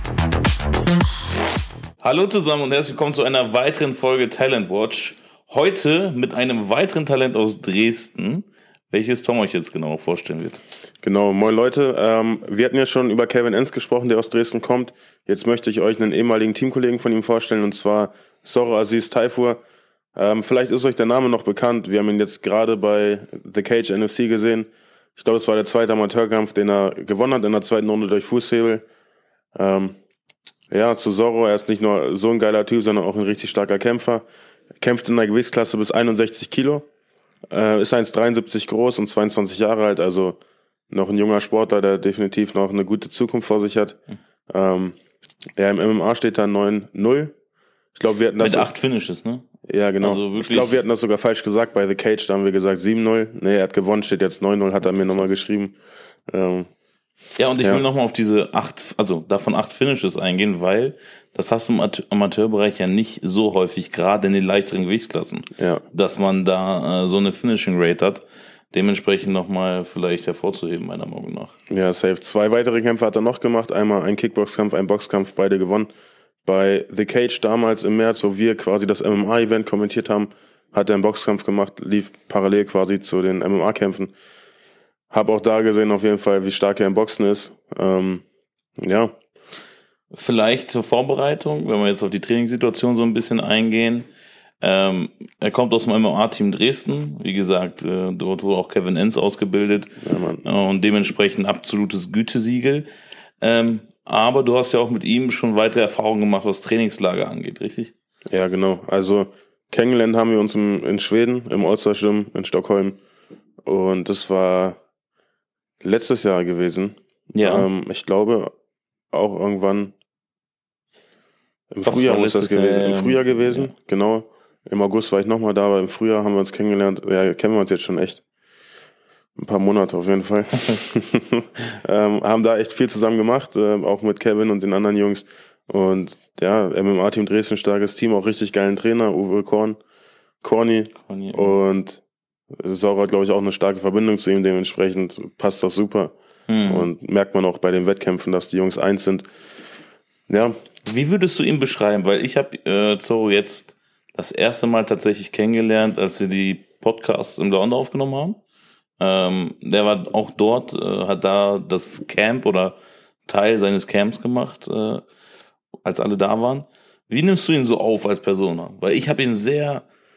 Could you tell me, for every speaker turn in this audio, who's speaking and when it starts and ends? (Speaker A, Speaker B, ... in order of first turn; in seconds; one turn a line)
Speaker A: 2.0-10.6
Speaker B: 11.0-19.6
Speaker B: 20.1-28.8
Speaker B: 29.6-30.0
Speaker B: 30.7-34.2
Speaker B: 34.8-36.9
Speaker B: 37.5-40.4
Speaker B: 40.9-44.0
Speaker B: 44.5-45.0
Speaker B: 45.6-47.3
Speaker B: 48.0-48.7
Speaker A: 48.4-49.5
Speaker B: 49.7-55.8
Speaker A: 50.0-50.8
Speaker A: 54.8-55.4
Speaker B: 56.3-56.7
Speaker A: 57.4-71.5
Speaker B: 65.6-65.8
Speaker B: 71.7-75.9
Speaker B: 76.5-84.1
Speaker B: 85.1-88.2
Speaker B: 88.8-89.1
Speaker A: 90.1-94.1
Speaker A: 94.6-99.9
Speaker B: 100.0-100.4
Speaker A: 100.4-102.9
Speaker A: 103.4-107.9
Speaker B: 108.3-113.0
Speaker B: 113.7-114.8
Speaker B: 115.8-118.5
Speaker A: 117.3-117.7
Speaker B: 119.1-119.9
Speaker B: 121.7-128.2
Speaker A: 121.8-123.7
Speaker B: 129.4-139.8
Speaker B: 140.4-142.0
Speaker A: 141.1-141.6
Speaker B: 142.6-146.1
Speaker A: 146.5-146.9
Speaker B: 146.7-149.3
Speaker B: 150.3-150.6
Speaker A: 150.8-158.4
Speaker A: 159.0-165.1
Speaker A: 165.8-169.8